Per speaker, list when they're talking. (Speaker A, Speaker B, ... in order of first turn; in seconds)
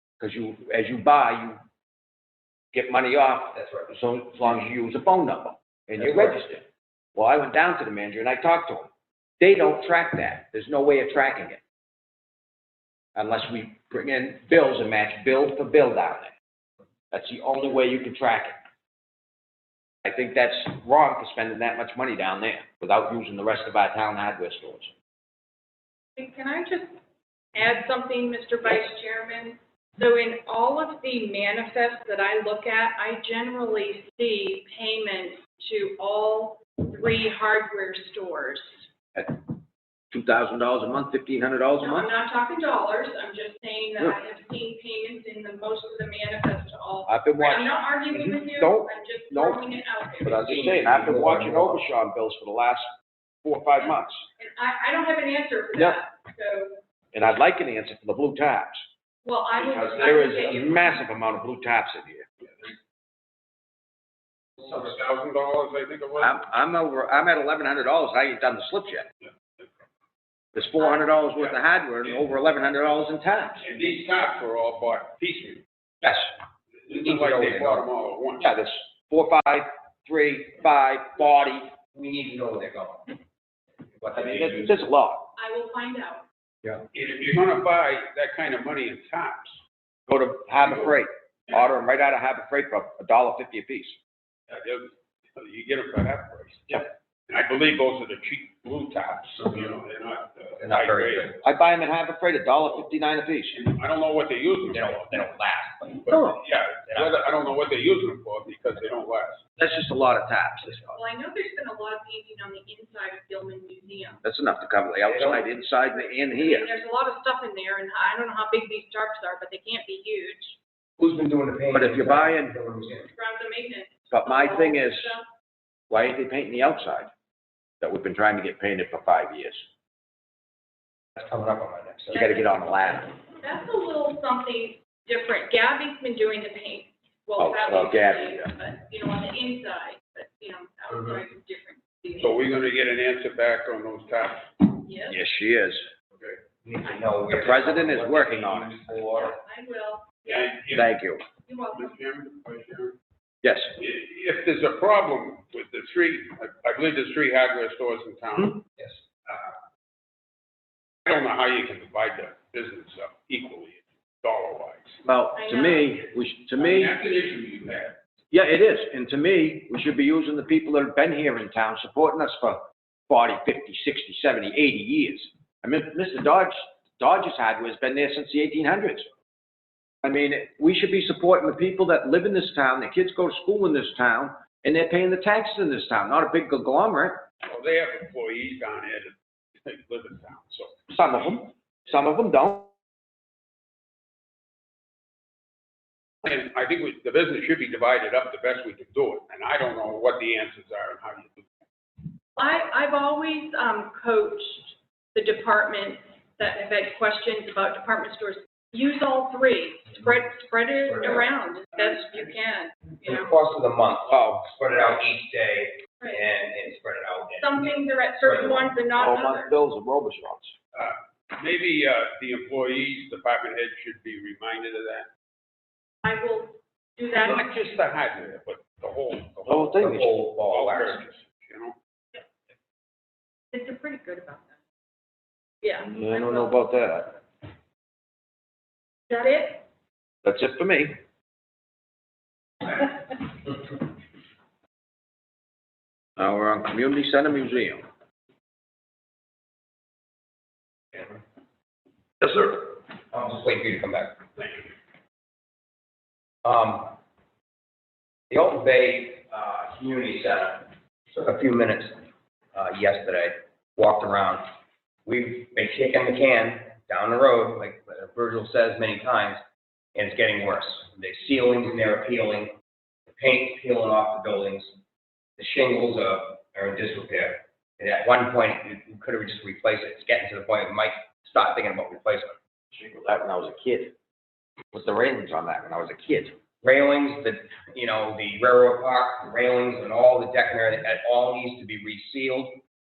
Speaker A: 0.2-1.6, 2.7-8.9, 9.4-11.6, 13.2-16.3, 17.1-18.6, 20.0-24.9, 39.1-39.6, 40.1-42.1, 47.1-49.7, 50.2-52.9, 53.4-54.2, 57.1-58.9, 59.6-62.3, 66.2-69.1, 70.5-73.7, 76.0-76.3, 78.4-81.7, 84.1-85.3, 90.1-94.0, 101.4-103.6, 106.1-106.4, 109.6-111.0, 114.2-116.7, 121.7-122.5, 124.1-125.2, 125.9-127.1, 127.8-129.6, 132.1-133.2, 137.4-138.5, 145.1-145.9, 147.3-148.8, 150.7-151.2, 153.4-153.7, 165.0-166.9, 168.3-179.1, 180.0-187.2, 190.9-192.7, 214.1-214.5, 219.0-220.5, 229.5-230.2, 235.8-237.2, 240.2-241.0, 246.2-247.9, 282.7-283.9, 284.7-286.4
Speaker B: 3.5-3.9, 6.0-6.4, 50.4-51.9, 76.9-77.8, 81.9-83.2, 84.0-84.8, 100.6-101.4, 104.7-106.2, 106.9-107.2, 115.0-115.5, 121.0-123.1, 131.2-132.3, 146.2-149.4, 158.8-159.4, 210.9-211.2, 213.0-218.7, 229.8-231.0, 250.9-251.2, 252.2-254.2, 256.4-257.0, 258.3-262.0, 262.5-264.5, 265.1-269.4, 269.9-272.5, 273.2-274.8, 275.4-282.4, 286.6-292.6
Speaker C: 26.2-26.9, 27.6-38.9, 41.8-50.9, 53.8-56.8, 59.2-61.0, 85.4-86.2, 110.9-114.2, 116.0-120.6, 123.0-125.3, 132.1-142.4, 144.8-145.2, 149.2-150.6, 151.4-152.0, 165.3-166.0, 202.3-213.3, 216.0-216.3, 217.4-219.6, 226.0-227.5, 233.5-234.6, 235.6-237.1, 239.1-239.6
Speaker D: 64.6-66.4, 69.2-69.7, 73.6-75.6, 76.8-78.5, 86.9-89.6, 94.5-101.3, 103.5-105.0, 106.1-109.4, 142.2-144.8, 150.3-150.9, 151.7-152.9, 153.8-158.6, 161.1-165.0, 166.6-168.0, 187.5-190.9, 196.2-201.4, 220.7-225.1, 227.2-229.9, 230.5-231.8